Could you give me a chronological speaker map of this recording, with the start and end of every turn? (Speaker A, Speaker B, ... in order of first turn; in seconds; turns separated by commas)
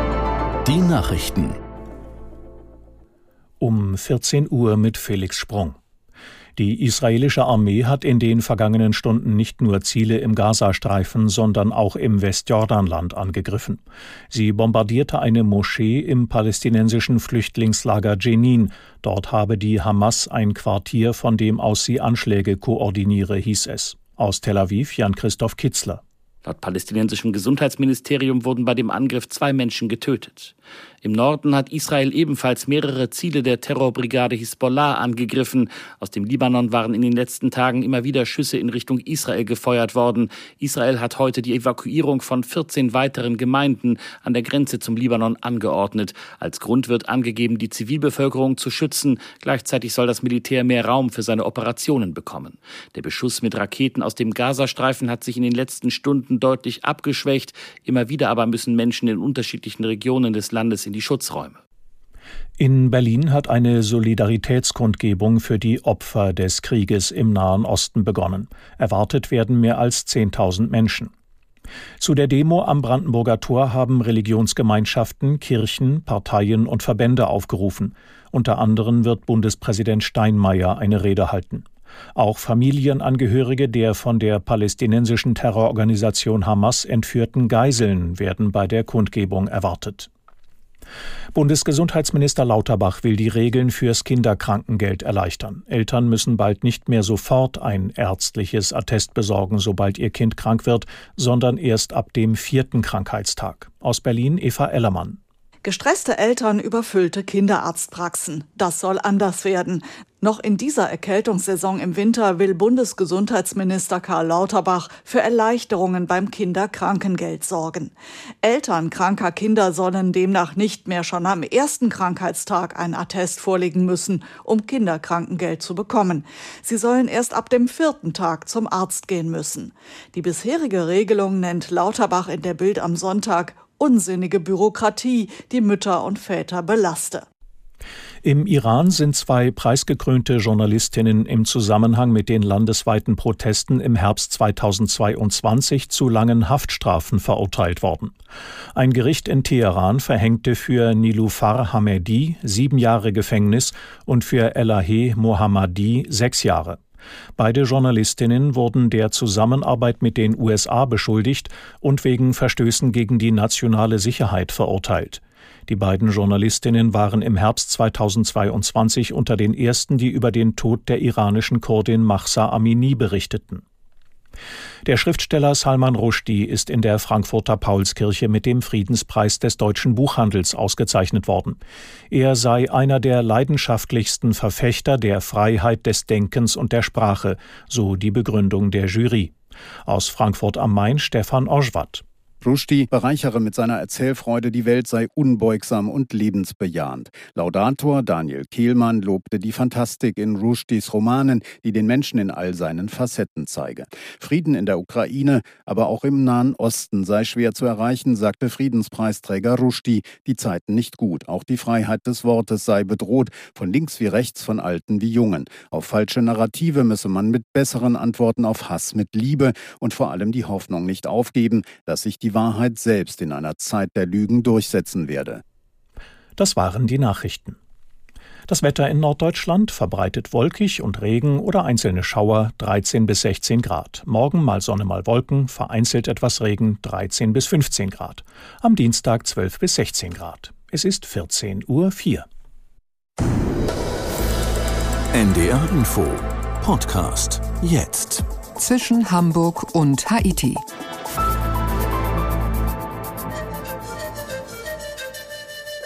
Speaker A: 0.6-1.6, Speaker B: 3.6-5.8, Speaker B: 6.6-26.0, Speaker C: 26.4-61.6, Speaker B: 62.6-71.1, Speaker B: 72.0-81.7, Speaker B: 82.2-90.1, Speaker B: 91.3-105.2, Speaker D: 105.6-137.3, Speaker B: 138.2-148.1, Speaker B: 148.8-156.8, Speaker B: 157.4-173.6, Speaker B: 174.8-181.6, Speaker B: 182.1-189.3, Speaker B: 189.9-192.0, Speaker E: 192.4-225.4, Speaker B: 226.4-227.6, Speaker B: 228.5-242.3, Speaker A: 245.1-248.3, Speaker F: 248.6-250.6